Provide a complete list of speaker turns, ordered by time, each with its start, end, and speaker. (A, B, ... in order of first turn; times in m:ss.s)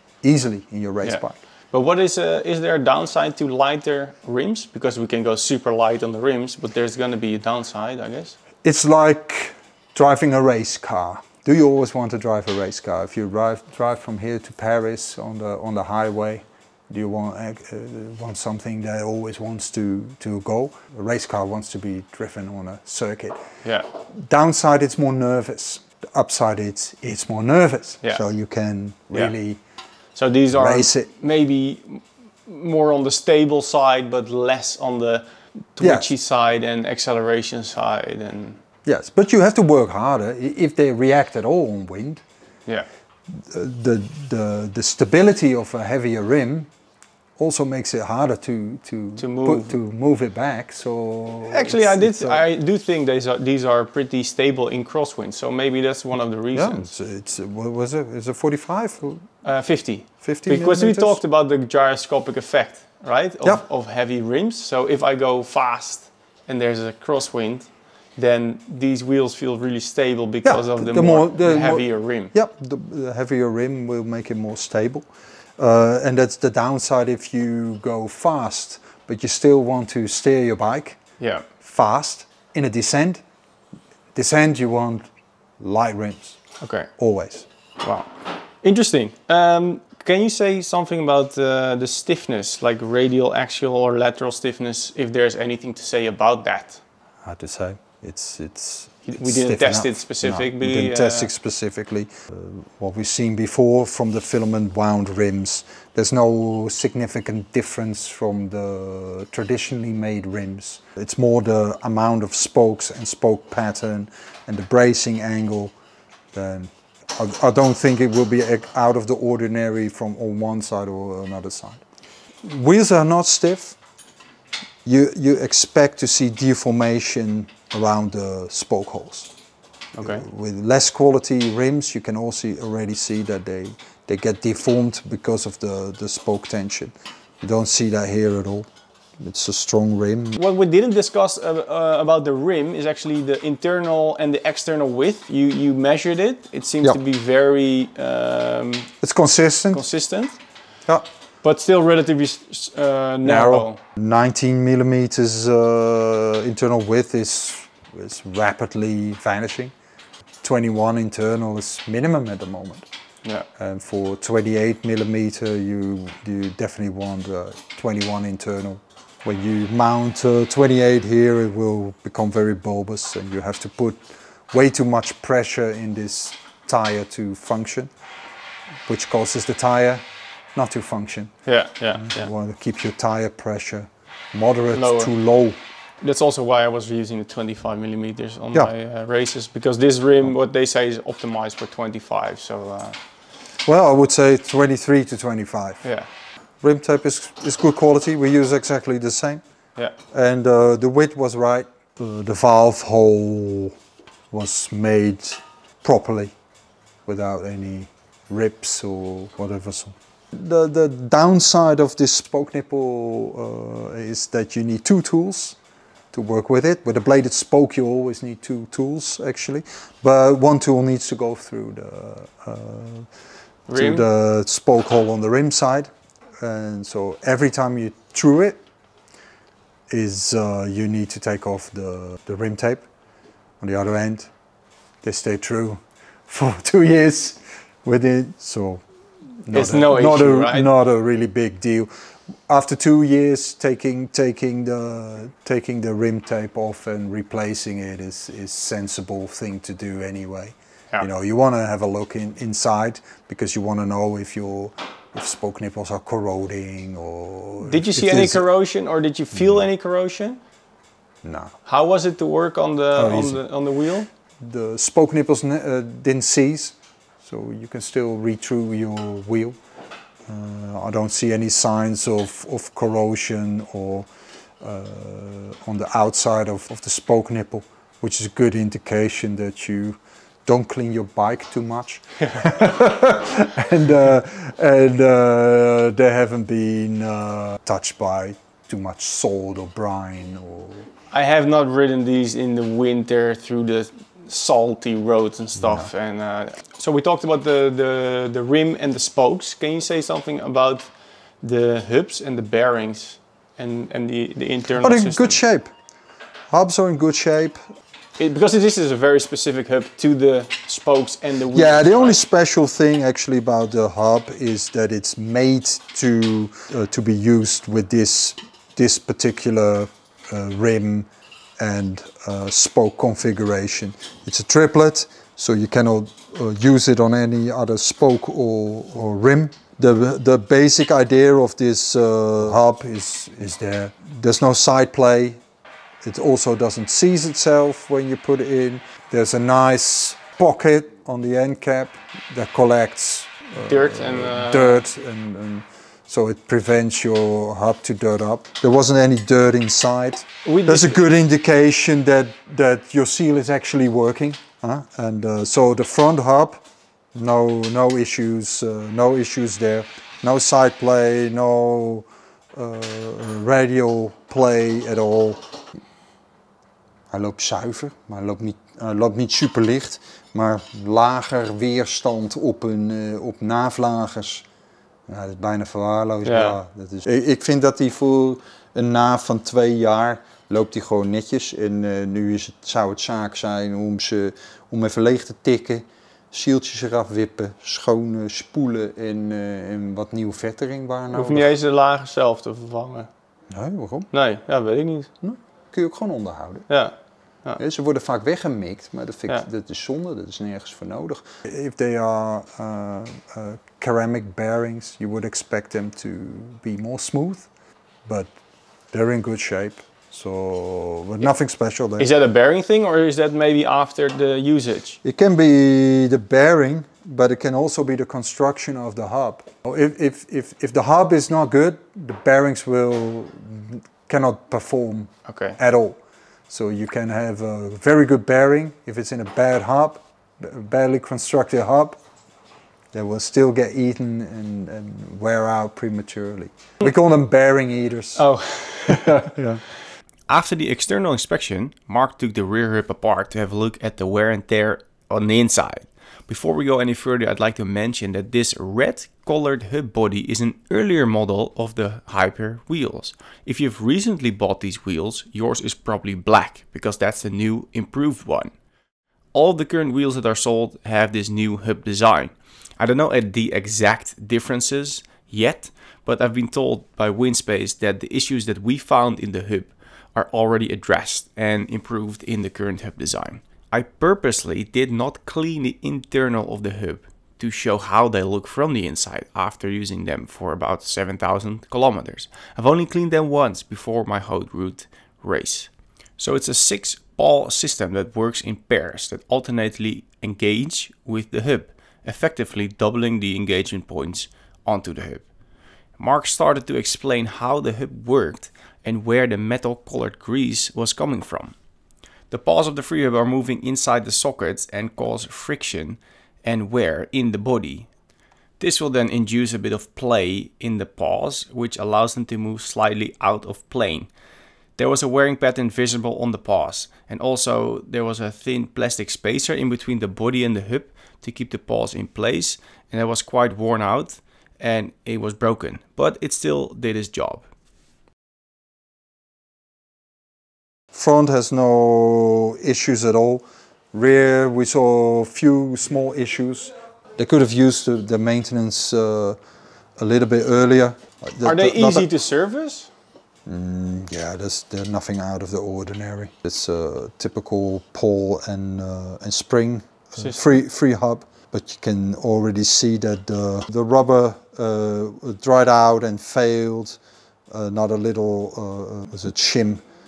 0:00.2-0:01.3 A
0:01.0-0:08.4 B
0:08.6-0:23.4 A
0:24.1-0:29.6 A
0:30.1-0:38.6 B
0:30.5-0:31.1 A
0:35.8-0:36.1 A
0:38.8-0:42.2 A
0:43.3-0:46.7 A
0:47.4-0:52.4 A
0:49.2-0:49.7 B
0:51.5-0:56.9 B
0:56.5-0:59.2 A
0:59.4-1:12.3 B
1:00.2-1:01.2 A
1:10.4-1:15.1 A
1:15.6-1:21.0 A
1:21.2-1:21.5 B
1:21.6-1:23.2 A
1:24.1-1:25.1 A
1:25.6-1:26.4 A
1:26.6-1:26.9 B
1:27.0-1:27.5 A
1:27.8-1:28.1 B
1:28.6-1:36.8 B
1:37.2-1:55.7 A
1:39.1-1:41.3 B
1:56.3-2:01.8 A
2:02.4-2:03.8 A
2:04.8-2:09.3 A
2:10.0-2:10.2 B
2:10.0-2:18.7 A
2:19.2-2:20.4 A
2:20.4-2:28.9 B
2:29.0-2:29.8 A
2:29.7-2:30.4 B
2:31.4-2:33.8 B
2:33.2-2:39.7 A
2:40.4-2:42.9 A
2:43.6-2:57.9 A
2:58.9-3:00.0 A
3:00.5-3:01.3 A
3:01.4-3:02.3 B
3:01.9-3:05.6 A
3:04.8-3:05.1 B
3:06.0-3:13.0 B
3:13.6-3:15.8 A
3:16.6-3:19.4 A
3:20.1-3:23.7 A
3:24.3-3:26.3 A
3:27.0-3:35.6 A
3:36.1-3:43.1 A
3:43.7-3:44.0 B
3:43.7-3:45.9 A
3:46.4-3:48.6 A
3:49.9-3:52.9 A
3:53.6-3:54.3 A
3:55.0-3:58.8 A
3:59.4-4:01.9 A
3:59.5-4:00.7 B
4:02.5-4:18.4 A
4:17.6-4:20.4 B
4:21.2-4:21.5 A
4:21.6-4:24.1 B
4:23.0-4:23.4 A
4:24.4-4:29.6 A
4:30.3-4:34.1 A
4:34.6-4:50.9 A
4:51.1-5:00.9 B
4:55.6-4:55.9 A
5:01.4-5:05.4 B
5:04.8-5:05.7 A
5:06.5-5:07.6 A
5:08.2-5:12.2 B
5:11.5-5:35.4 A
5:36.0-5:56.6 A
5:43.7-5:44.8 B
5:50.4-5:51.0 B
5:57.1-6:05.4 A
6:07.1-6:14.4 A
6:15.1-6:31.5 A
6:16.2-6:16.6 B
6:31.1-6:33.1 B
6:33.5-6:34.1 A
6:34.1-6:35.1 B
6:35.2-6:36.7 A
6:36.7-6:36.9 B
6:37.6-6:47.5 A
6:48.9-6:52.1 A
6:52.0-6:55.0 B
6:55.0-7:06.0 A
7:05.2-7:05.6 B
7:06.5-7:12.0 A
7:12.9-7:18.2 A
7:18.2-7:19.3 B
7:18.8-7:19.6 A
7:20.3-7:38.5 C
7:39.3-8:15.2 C
8:16.0-8:21.6 C
8:22.3-8:27.9 C
8:28.6-8:34.1 C
8:34.8-8:47.4 C
8:50.9-8:59.4 A
9:00.0-9:02.1 A
9:01.4-9:02.9 B
9:03.5-9:17.0 A
9:10.2-9:10.4 B
9:17.5-9:19.8 A